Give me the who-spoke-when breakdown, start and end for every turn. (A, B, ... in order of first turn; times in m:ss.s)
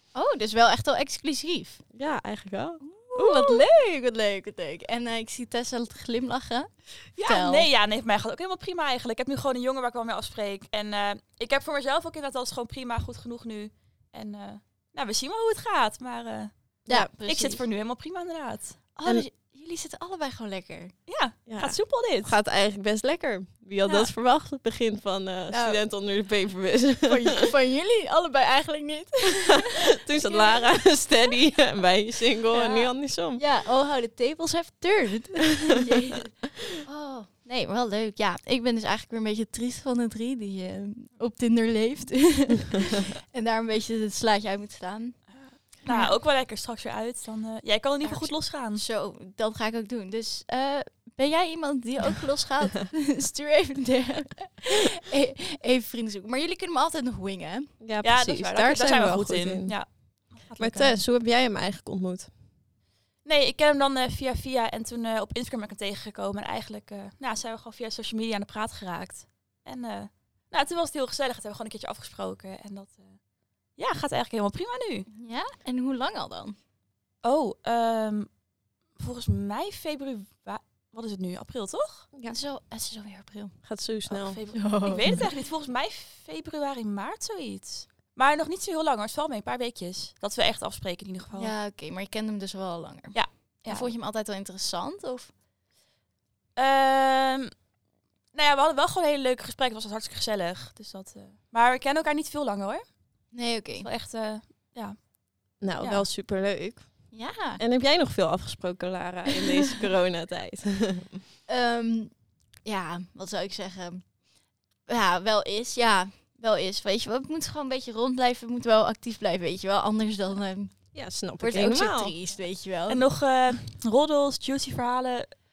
0:00.2-0:01.8 A
0:01.9-0:03.7 B
0:02.8-0:07.7 A
0:07.2-0:18.8 C
0:16.9-0:17.6 A
0:19.0-0:20.9 A
0:21.1-0:22.4 C
0:21.5-0:27.4 B
0:25.5-0:25.8 A
0:27.0-0:30.6 A
0:29.4-0:33.4 B
0:32.5-0:32.8 A
0:33.4-0:45.2 A
0:45.8-0:48.8 C
0:45.8-0:46.2 A
0:48.0-0:57.7 A
0:57.8-0:59.8 B
0:58.0-1:00.9 C
1:00.6-1:02.3 B
1:03.2-1:13.2 C
1:13.8-1:15.1 C
1:15.1-1:16.6 A
1:17.2-1:18.3 C
1:19.0-1:22.1 C
1:22.3-1:23.6 A
1:23.6-1:24.4 B
1:24.1-1:31.5 C
1:24.5-1:25.2 A
1:31.4-1:33.2 A
1:33.1-1:33.9 C
1:33.7-1:35.3 A
1:36.6-1:37.5 C
1:38.3-1:42.8 C
1:43.3-1:43.9 A
1:43.8-1:45.0 C
1:45.6-1:46.8 B
1:47.1-1:47.6 A
1:47.6-1:51.2 B
1:49.5-1:49.8 A
1:51.5-1:52.1 A
1:52.6-1:54.0 A
1:54.9-2:00.8 A
2:00.9-2:02.1 B
2:01.4-2:03.0 A
2:02.9-2:05.3 C